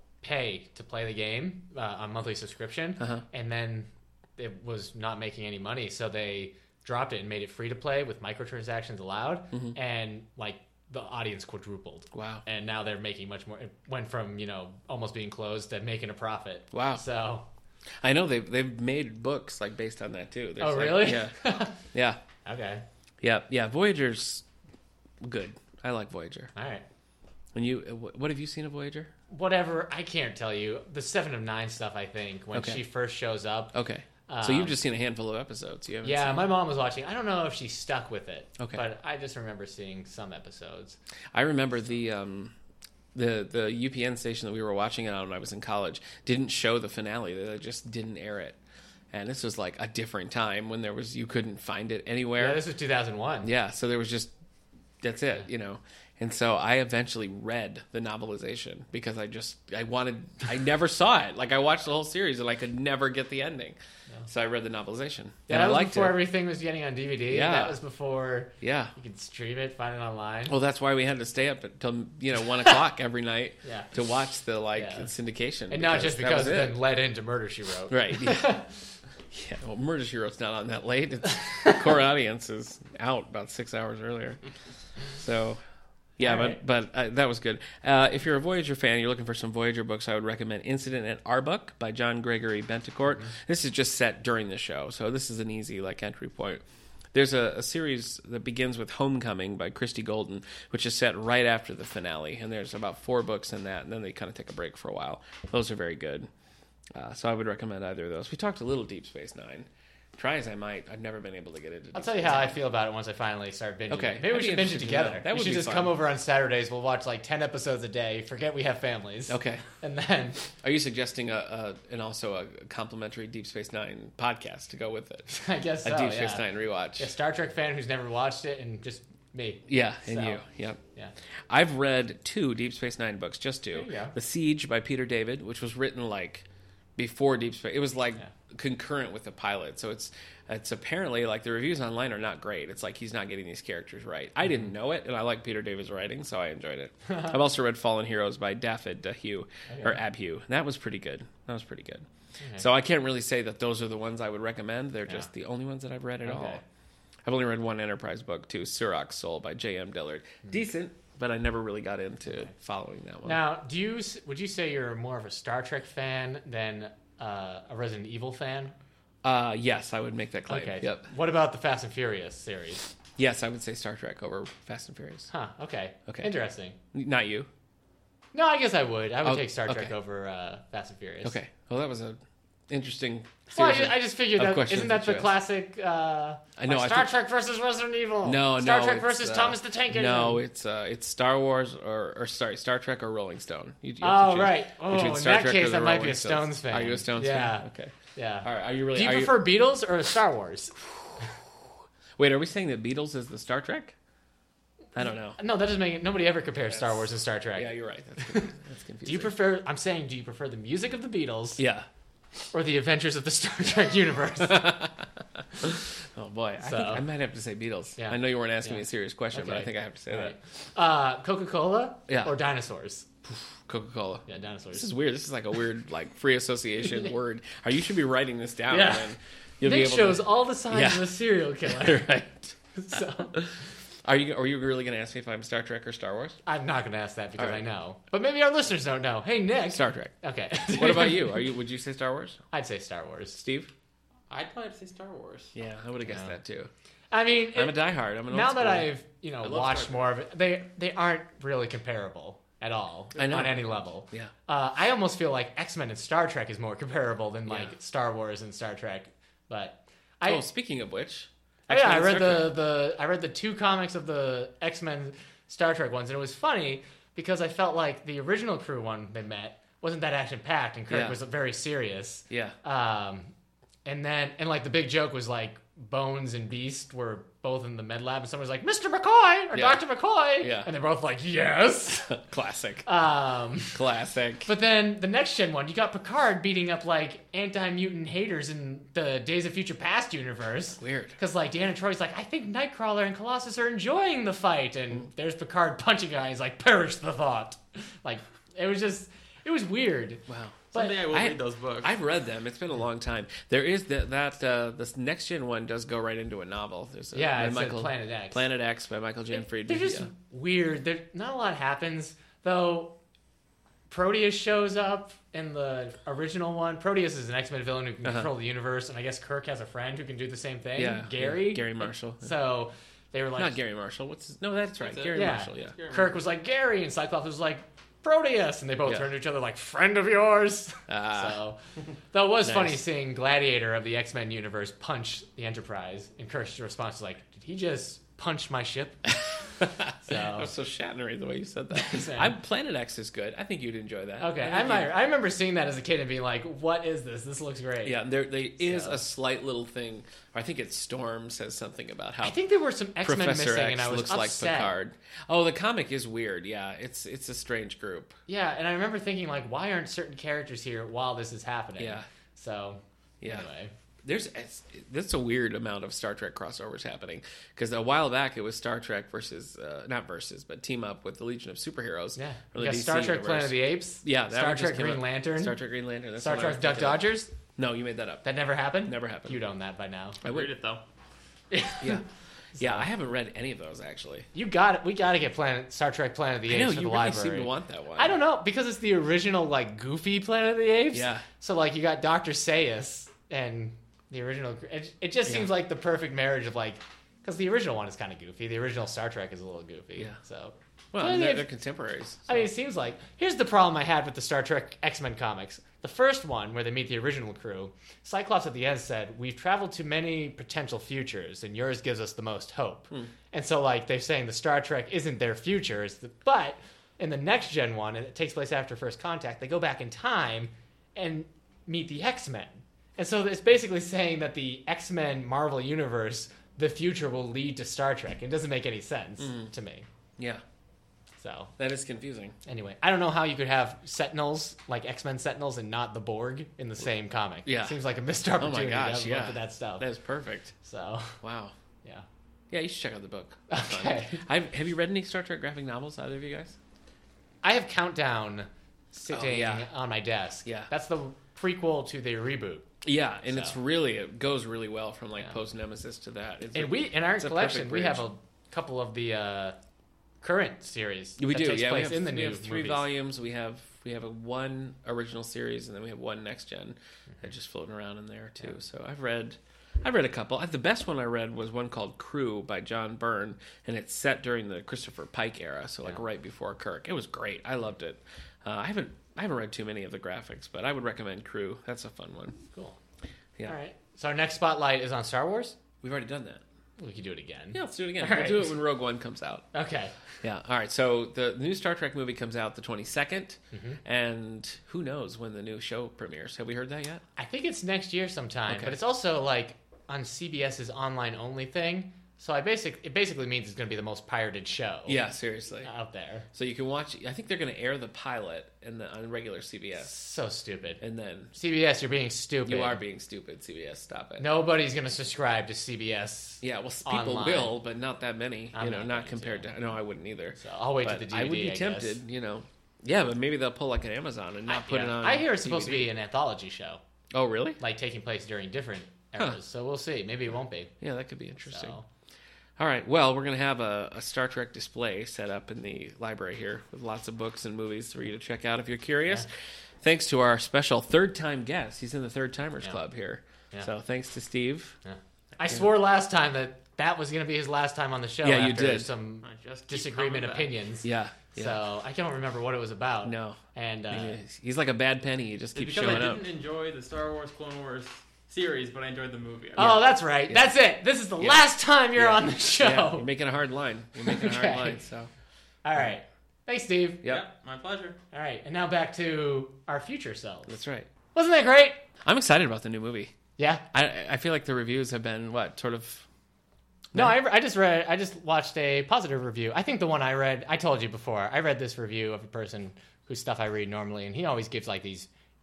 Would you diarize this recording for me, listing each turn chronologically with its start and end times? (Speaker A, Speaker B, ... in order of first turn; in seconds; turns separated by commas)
Speaker A: 0.2-17.4, Speaker B: 12.1-12.4, Speaker B: 16.7-17.0, Speaker B: 18.0-22.2, Speaker A: 20.6-21.8, Speaker A: 22.4-22.8, Speaker B: 23.2-24.4, Speaker B: 25.2-26.5, Speaker A: 26.5-26.8, Speaker B: 27.5-29.1, Speaker A: 29.3-33.7, Speaker B: 32.5-32.8, Speaker B: 33.7-36.5, Speaker A: 34.3-34.8, Speaker A: 36.0-41.0, Speaker B: 41.3-42.5, Speaker B: 43.1-48.6, Speaker B: 49.1-52.6, Speaker A: 52.4-53.5, Speaker B: 53.4-54.3, Speaker B: 55.0-63.8, Speaker B: 64.3-66.2, Speaker A: 65.5-70.5, Speaker B: 67.3-67.8, Speaker B: 68.6-68.9, Speaker B: 70.5-76.8, Speaker A: 73.6-73.9, Speaker A: 74.7-75.1, Speaker A: 75.7-78.7, Speaker B: 77.9-78.5, Speaker B: 79.3-84.4, Speaker B: 85.1-85.6, Speaker B: 86.2-96.6, Speaker A: 86.2-86.6, Speaker B: 97.1-106.3, Speaker B: 106.9-112.5, Speaker A: 111.9-120.4, Speaker B: 113.9-116.0, Speaker B: 119.3-119.6, Speaker B: 120.5-125.3, Speaker A: 125.3-126.4, Speaker B: 125.8-127.1, Speaker A: 127.0-130.4, Speaker B: 129.7-130.8, Speaker B: 131.5-152.1, Speaker A: 133.7-134.1, Speaker A: 149.7-150.0, Speaker A: 152.4-152.6, Speaker B: 152.6-156.6, Speaker A: 156.2-156.6, Speaker B: 157.2-163.4, Speaker A: 163.2-168.7, Speaker B: 169.2-171.1, Speaker A: 170.5-172.9, Speaker B: 173.2-175.3, Speaker A: 175.3-176.8, Speaker B: 176.9-177.5, Speaker A: 178.3-181.4, Speaker B: 179.2-179.9, Speaker B: 181.2-185.3, Speaker A: 183.5-190.4, Speaker B: 186.6-187.1, Speaker B: 188.2-199.5, Speaker A: 194.0-200.8, Speaker B: 202.2-203.9, Speaker B: 204.9-205.4, Speaker A: 205.3-208.5, Speaker B: 206.7-209.3, Speaker A: 209.0-211.6, Speaker B: 211.6-211.9, Speaker A: 212.5-214.7, Speaker B: 214.4-220.4, Speaker A: 216.6-217.0, Speaker A: 218.0-223.1, Speaker B: 222.1-222.3, Speaker B: 223.2-236.4, Speaker A: 224.3-224.9, Speaker A: 228.7-229.1, Speaker A: 229.6-232.1, Speaker A: 232.8-233.4, Speaker A: 236.4-241.4, Speaker B: 237.4-237.6, Speaker B: 239.7-240.1, Speaker B: 240.7-242.4, Speaker A: 242.5-243.4, Speaker B: 243.3-243.7, Speaker C: 244.3-245.5, Speaker B: 245.5-246.7, Speaker A: 246.0-246.3, Speaker A: 247.1-247.8, Speaker B: 247.5-248.9, Speaker A: 248.3-260.4, Speaker B: 249.4-249.9, Speaker B: 253.2-254.3, Speaker B: 257.5-257.7, Speaker B: 260.2-262.6, Speaker A: 261.7-273.3, Speaker B: 270.9-271.2, Speaker B: 272.3-272.5, Speaker A: 273.8-282.1, Speaker B: 279.5-279.8, Speaker B: 280.4-280.7, Speaker B: 282.1-282.9, Speaker A: 282.8-283.8, Speaker B: 283.7-284.5, Speaker A: 284.4-301.0, Speaker B: 290.8-291.2, Speaker B: 300.3-310.1, Speaker C: 300.7-302.0, Speaker A: 307.1-308.4, Speaker A: 309.3-312.9, Speaker A: 313.9-323.6, Speaker B: 318.0-318.3, Speaker B: 320.8-322.3, Speaker B: 323.4-325.8, Speaker C: 324.8-326.2, Speaker A: 325.1-331.6, Speaker B: 328.9-329.1, Speaker B: 330.9-331.4, Speaker A: 332.1-339.2, Speaker B: 332.4-332.8, Speaker B: 339.6-344.9, Speaker A: 340.0-340.5, Speaker A: 341.7-342.4, Speaker A: 344.2-348.0, Speaker B: 347.8-352.4, Speaker A: 348.6-349.0, Speaker A: 352.2-354.7, Speaker B: 353.0-358.1, Speaker A: 358.3-363.7, Speaker B: 361.8-362.1, Speaker B: 363.2-363.5, Speaker B: 364.0-378.2, Speaker A: 372.1-375.6, Speaker A: 376.2-377.3, Speaker A: 378.2-380.2, Speaker B: 378.8-379.4, Speaker B: 380.2-380.5, Speaker C: 380.2-380.8, Speaker A: 381.5-382.0, Speaker B: 381.8-382.0, Speaker A: 382.6-382.9, Speaker B: 382.6-384.3, Speaker A: 384.3-401.5, Speaker B: 386.5-388.2, Speaker B: 390.9-391.2, Speaker B: 395.3-395.5, Speaker B: 400.9-402.5, Speaker A: 402.2-429.9, Speaker B: 429.2-429.5, Speaker A: 431.2-431.5, Speaker B: 431.6-432.4, Speaker A: 432.4-439.8, Speaker B: 437.4-437.8, Speaker B: 438.4-440.5, Speaker A: 440.6-441.2, Speaker B: 441.2-441.5, Speaker B: 442.5-446.6, Speaker A: 443.5-444.2, Speaker A: 447.4-452.7, Speaker B: 449.1-449.7, Speaker B: 450.4-450.7, Speaker B: 452.8-458.0, Speaker A: 453.3-453.6, Speaker A: 456.5-459.6, Speaker A: 460.2-462.9, Speaker B: 461.2-482.4, Speaker A: 483.5-485.6, Speaker B: 485.8-486.4, Speaker A: 486.8-488.6, Speaker B: 487.5-489.5, Speaker A: 489.5-489.9, Speaker B: 490.2-497.0, Speaker A: 493.5-493.8, Speaker A: 497.2-505.0, Speaker B: 498.5-498.8, Speaker B: 504.9-505.7, Speaker A: 505.6-506.2, Speaker B: 506.3-509.9, Speaker A: 509.8-510.8, Speaker B: 510.8-511.3, Speaker A: 511.3-512.8, Speaker B: 512.5-514.3, Speaker A: 514.2-517.6, Speaker B: 516.4-525.9, Speaker A: 518.5-519.5, Speaker A: 520.4-522.0, Speaker A: 524.5-526.8, Speaker B: 527.1-527.6, Speaker A: 527.6-530.7, Speaker B: 530.8-531.8, Speaker A: 531.4-531.9, Speaker B: 532.6-539.3, Speaker B: 539.8-544.8, Speaker A: 544.8-554.2, Speaker B: 548.2-548.9, Speaker C: 549.2-550.5, Speaker B: 550.8-551.6, Speaker B: 553.0-553.4, Speaker B: 553.9-556.2, Speaker C: 555.5-559.7, Speaker A: 555.6-556.1, Speaker B: 559.6-560.5, Speaker A: 559.6-563.1, Speaker B: 561.2-565.1, Speaker A: 564.0-564.8, Speaker A: 565.6-567.0, Speaker C: 567.0-568.0, Speaker A: 568.1-570.5, Speaker B: 570.5-570.9, Speaker A: 571.1-571.8, Speaker B: 572.0-573.1, Speaker A: 573.4-573.6, Speaker B: 573.7-576.0, Speaker B: 576.9-577.2, Speaker A: 576.9-585.1